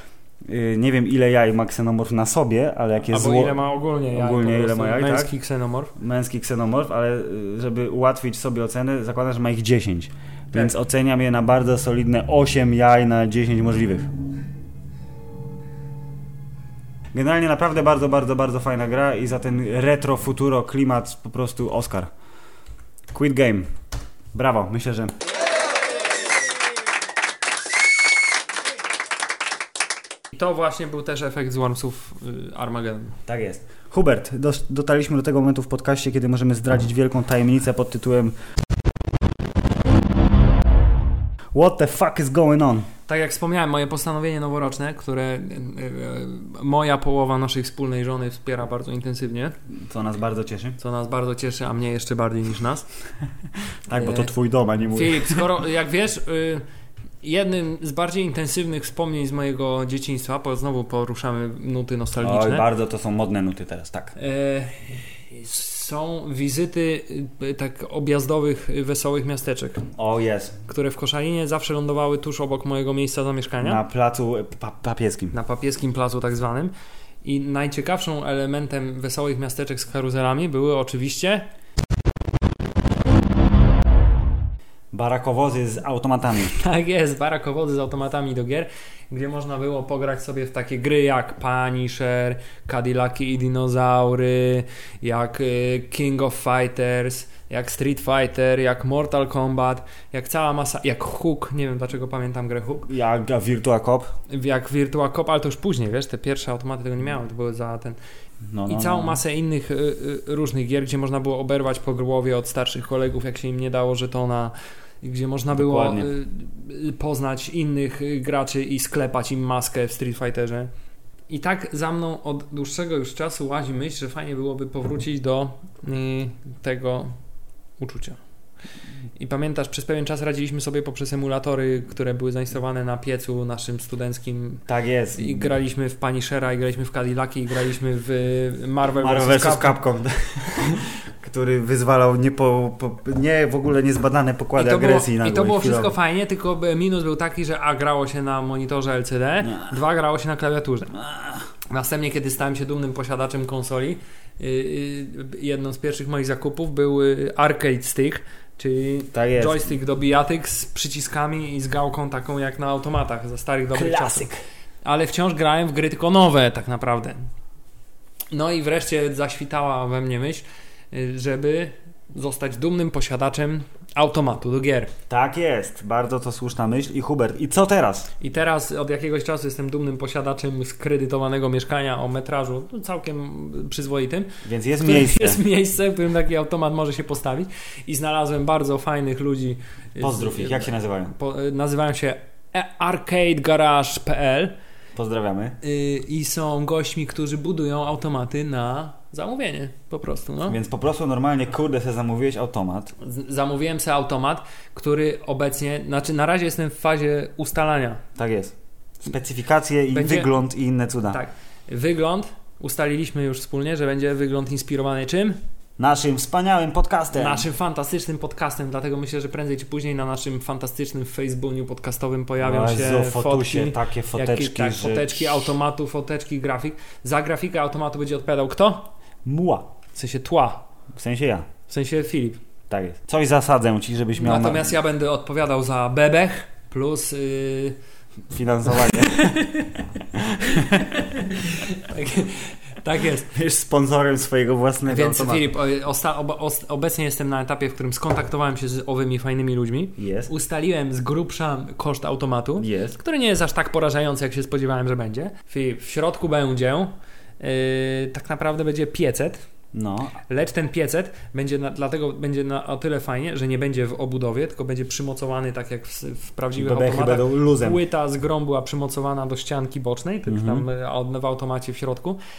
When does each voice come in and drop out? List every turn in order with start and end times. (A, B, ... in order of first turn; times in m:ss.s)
0:00.4-0:05.3 A
0:03.1-0:05.9 B
0:06.0-0:14.1 A
0:17.1-0:22.1 A
0:23.1-0:23.7 A
0:24.3-0:25.2 A
0:30.3-0:33.2 B
0:33.3-0:38.4 A
0:41.5-0:42.9 A
0:43.1-0:49.6 B
0:49.7-0:50.8 A
0:50.8-0:52.9 B
0:53.9-0:55.4 A
0:54.0-0:54.3 B
0:54.9-0:56.6 B
0:57.2-1:02.7 B
1:02.2-1:04.2 A
1:04.2-1:09.9 B
1:10.0-1:10.6 A
1:10.7-1:13.8 B
1:13.6-1:15.4 A
1:15.3-1:16.7 B
1:17.2-1:21.5 B
1:24.9-1:26.6 A
1:26.5-1:42.9 B
1:42.9-1:44.2 A
1:44.3-1:48.0 B
1:48.5-1:49.2 A
1:48.7-2:00.7 B
1:55.5-1:56.1 A
2:01.3-2:07.2 B
2:07.8-2:08.2 B
2:09.2-2:14.6 B
2:14.7-2:15.5 A
2:15.2-2:19.8 B
2:19.0-2:26.0 A
2:24.6-2:31.0 B
2:31.0-2:31.4 A
2:31.7-2:44.3 B
2:39.1-2:39.7 A
2:43.7-2:44.4 A
2:44.8-2:47.3 B
2:48.3-2:54.9 B
2:55.1-2:58.1 A
2:58.2-3:14.6 B
3:04.4-3:05.4 A
3:10.0-3:11.1 A
3:15.0-3:15.6 A
3:15.6-3:20.6 B
3:20.5-3:22.9 A
3:23.0-3:28.0 B
3:28.2-3:31.2 A
3:29.9-3:30.3 B
3:31.1-3:35.4 B
3:35.8-3:37.5 A
3:37.2-3:48.9 B
3:42.4-3:45.5 A
3:49.2-3:49.7 A
3:49.9-3:50.7 B
3:50.9-3:51.5 A
3:51.7-3:52.4 B
3:52.7-3:54.7 A
3:54.2-3:57.8 B
3:58.3-4:01.2 A
3:59.0-3:59.8 B
4:00.4-4:03.3 B
4:03.3-4:05.5 A
4:04.9-4:19.4 B
4:10.0-4:10.3 A
4:12.6-4:13.0 A
4:19.7-4:20.2 A
4:20.3-4:32.2 B
4:26.5-4:27.8 A
4:30.3-4:30.6 A